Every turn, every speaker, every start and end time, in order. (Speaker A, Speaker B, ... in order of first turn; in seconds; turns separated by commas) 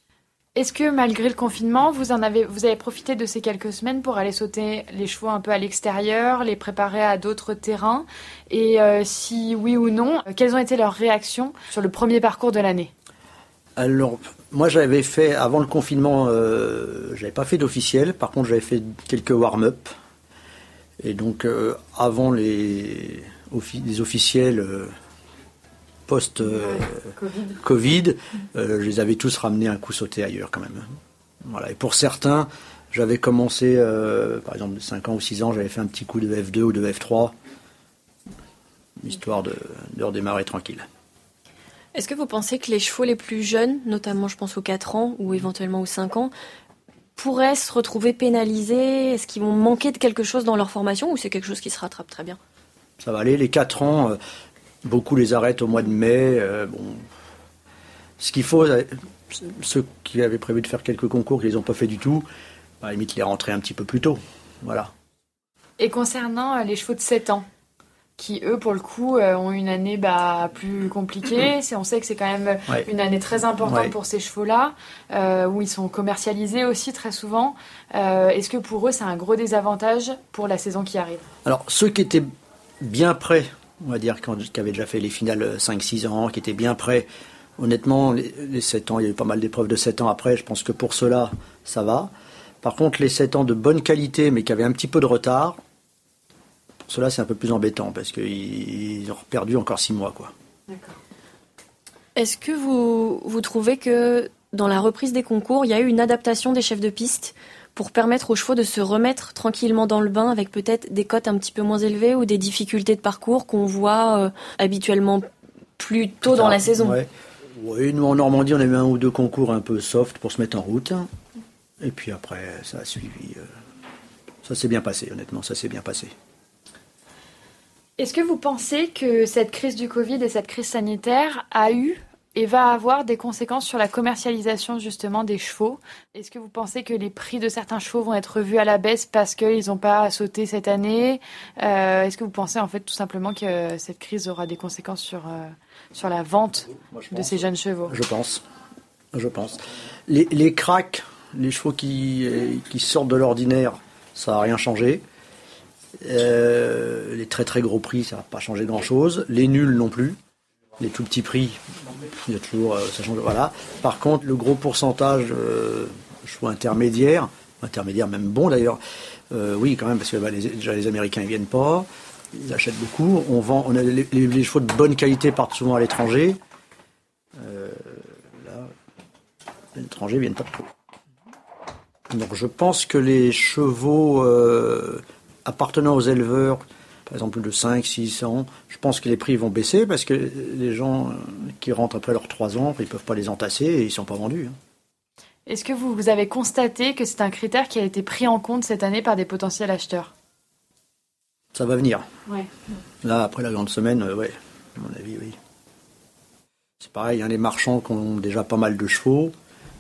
Speaker A: 0.6-12.9, Speaker B: 13.8-19.9, Speaker B: 21.0-24.9, Speaker B: 26.1-30.9, Speaker B: 31.5-37.3, Speaker B: 39.0-40.9, Speaker C: 42.0-46.3, Speaker C: 47.2-52.4, Speaker B: 53.0-54.2, Speaker B: 54.8-57.0, Speaker B: 58.2-62.2, Speaker B: 62.8-64.9, Speaker A: 65.8-67.5, Speaker A: 68.2-81.2, Speaker B: 73.6-73.9, Speaker B: 81.5-82.3, Speaker B: 82.8-92.1, Speaker B: 92.6-95.6, Speaker B: 96.9-100.3, Speaker A: 100.7-101.0, Speaker C: 102.2-115.3, Speaker C: 115.8-117.0, Speaker B: 116.3-121.1, Speaker B: 121.8-123.5, Speaker B: 124.4-126.1, Speaker A: 128.0-148.0, Speaker B: 146.9-147.3, Speaker B: 147.9-148.4, Speaker B: 149.1-155.0, Speaker B: 156.0-160.2, Speaker B: 160.8-168.8, Speaker B: 169.3-176.4, Speaker B: 177.4-178.7, Speaker B: 179.8-180.7, Speaker B: 182.1-194.6, Speaker A: 195.5-200.1, Speaker B: 201.5-202.1, Speaker B: 203.0-205.4, Speaker B: 206.8-209.3